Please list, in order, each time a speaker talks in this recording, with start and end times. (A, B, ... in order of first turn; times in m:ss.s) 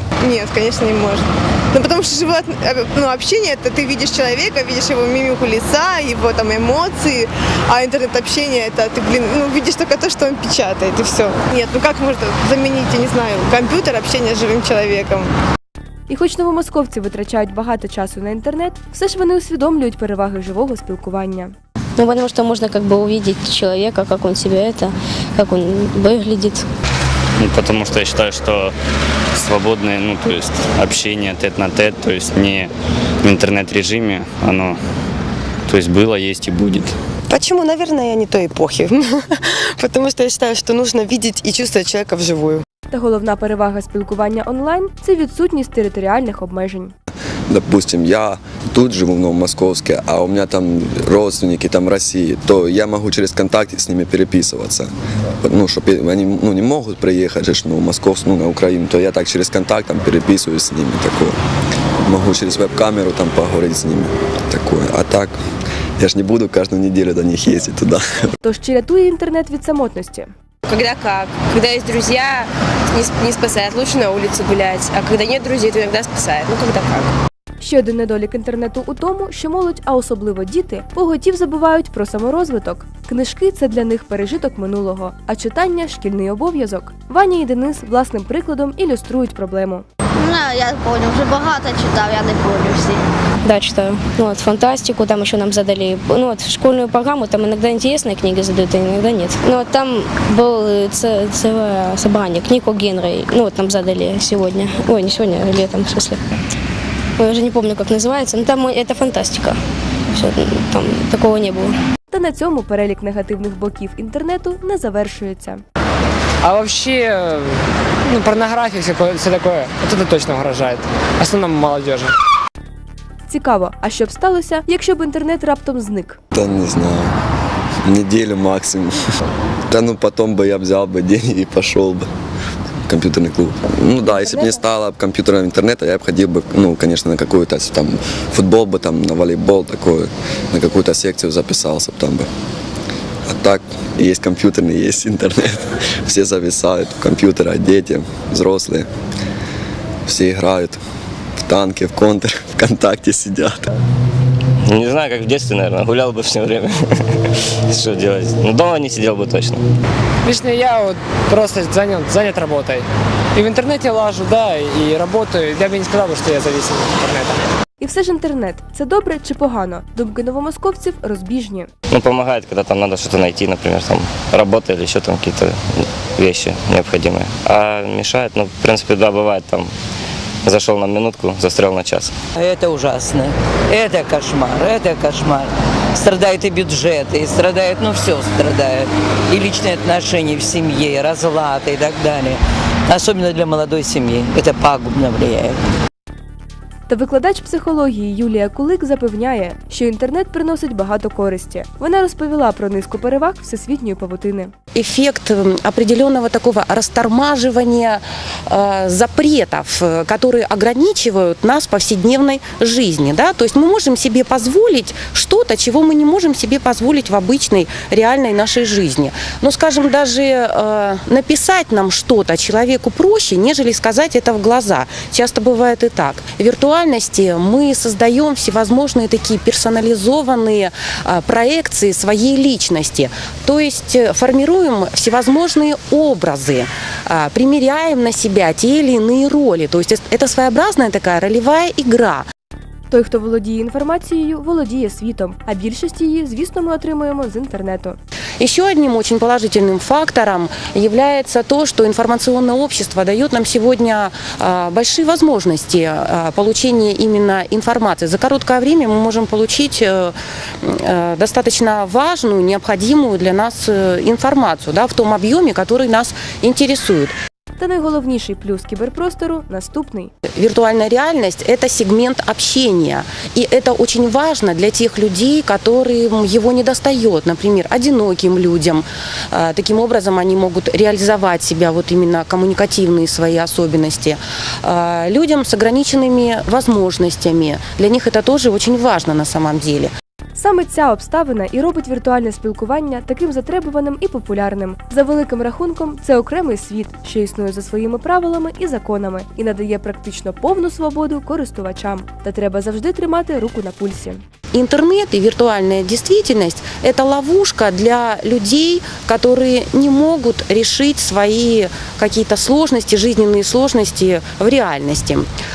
0:00.2-0:15.3 A
0:16.1-0:21.5 B
0:22.0-0:26.6 C
0:27.4-0:28.7 D
0:29.4-0:32.7 D
0:33.2-0:34.8 D
0:35.7-0:37.0 D
0:37.3-0:42.6 E
0:42.9-0:47.0 B
0:47.5-0:54.9 F
0:55.4-1:01.4 F
1:02.0-1:05.4 F
1:06.0-1:08.0 F
1:08.4-1:10.3 B
1:10.8-1:12.4 G
1:13.0-1:16.6 G
1:17.6-1:29.8 B
1:30.2-1:33.0 H
1:33.4-1:46.2 C
1:47.2-1:49.6 C
1:50.1-1:51.8 C
1:52.1-1:55.6 B
1:56.4-2:02.2 I
2:03.3-2:06.2 B
2:06.3-2:07.1 F
2:07.9-2:09.0 F
2:09.7-2:12.1 F
2:12.9-2:22.3 F
2:14.1-2:14.6 B
2:23.3-2:28.9 F
2:30.1-2:30.8 F
2:31.4-2:33.7 F
2:34.7-2:36.7 J
2:37.7-2:39.6 J
2:40.2-2:47.4 I
2:47.8-2:51.7 B
2:51.9-2:55.6 J
2:56.2-2:59.7 J
3:00.4-3:02.1 J
3:02.4-3:15.6 K
3:16.9-3:24.5 B
3:24.8-4:02.3 L
4:02.9-4:08.0 B
4:08.4-4:27.2 L
4:27.6-4:30.1 B
4:30.4-4:49.9 L
4:50.4-5:04.2 B
5:04.5-5:15.3 L